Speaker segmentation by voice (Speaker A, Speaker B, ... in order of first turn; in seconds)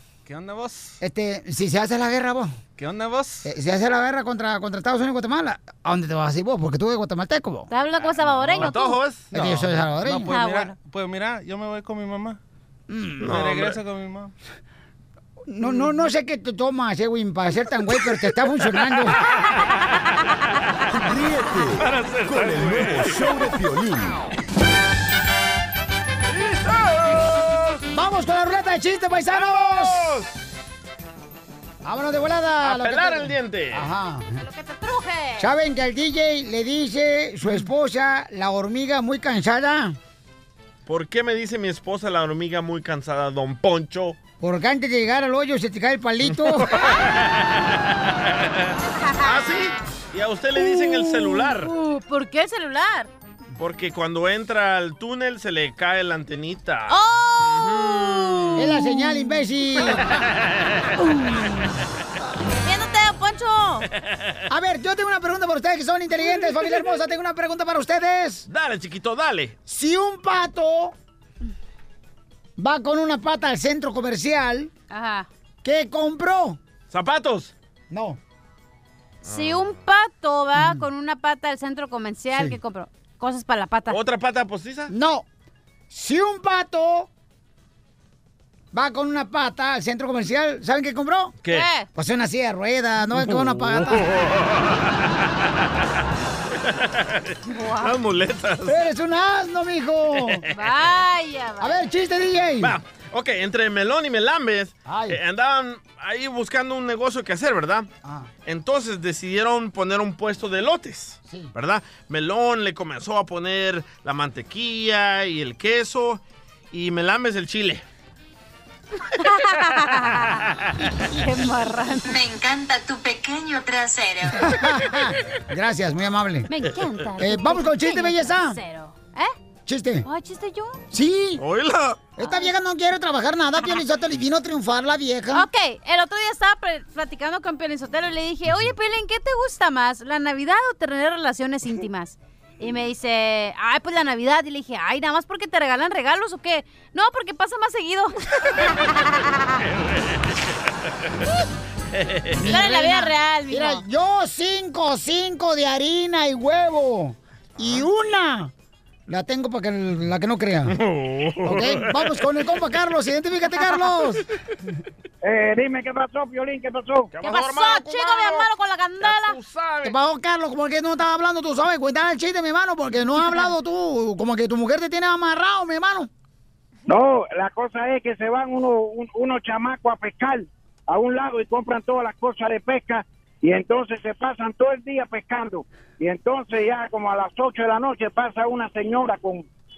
Speaker A: 0.3-0.9, 2.8-3.4, 8.3-9.3, 13.2-13.8, 21.8-23.4, 26.3-27.8, 29.3-30.3, 32.6-33.9, 40.9-44.2, 46.4-47.6, 48.6-51.7, 53.6-58.7, 68.5-69.6, 76.9-77.5, 79.2-79.8, 83.9-84.9, 93.9-94.8, 96.7-98.8, 100.3-100.5, 102.6-107.9, 108.5-117.8, 131.4-132.1, 152.0-152.4, 157.6-157.9, 160.7-162.2, 167.1-168.5, 169.0-169.9
Speaker B: 1.0-2.5, 3.4-7.7, 9.3-10.3, 12.9-13.3, 15.5-19.2, 27.9-30.1, 31.8-34.4, 35.4-40.0, 44.4-46.7, 58.6-60.1, 64.5-68.5, 69.7-71.0, 72.6-74.7, 75.6-76.6, 77.9-78.2, 80.6-80.9, 84.9-85.3, 85.9-87.1, 88.7-91.4, 92.0-94.1, 98.7-100.5, 101.6-102.8, 104.9-105.2, 108.0-108.3, 111.3-111.5, 124.4-126.5, 127.2-128.6, 129.7-130.1, 130.9-131.4, 132.2-135.5, 152.3-158.5, 159.1-160.8, 161.4-164.2, 169.8-176.1
Speaker C: 7.7-9.0, 10.3-10.8, 34.4-35.5, 50.6-53.1, 56.9-59.4, 62.6-63.9, 74.9-75.3, 79.2-84.0, 91.5-91.9, 97.5-98.0, 100.5-101.8, 119.2-120.5, 121.1-122.1, 126.5-129.3, 130.1-130.8, 132.2-132.5, 135.3-149.6, 152.4-153.8, 167.2-169.4
Speaker D: 9.3-12.4, 13.2-14.3
Speaker E: 20.9-24.2
Speaker F: 122.1-124.4
Speaker G: 165.2-167.1, 176.9-189.5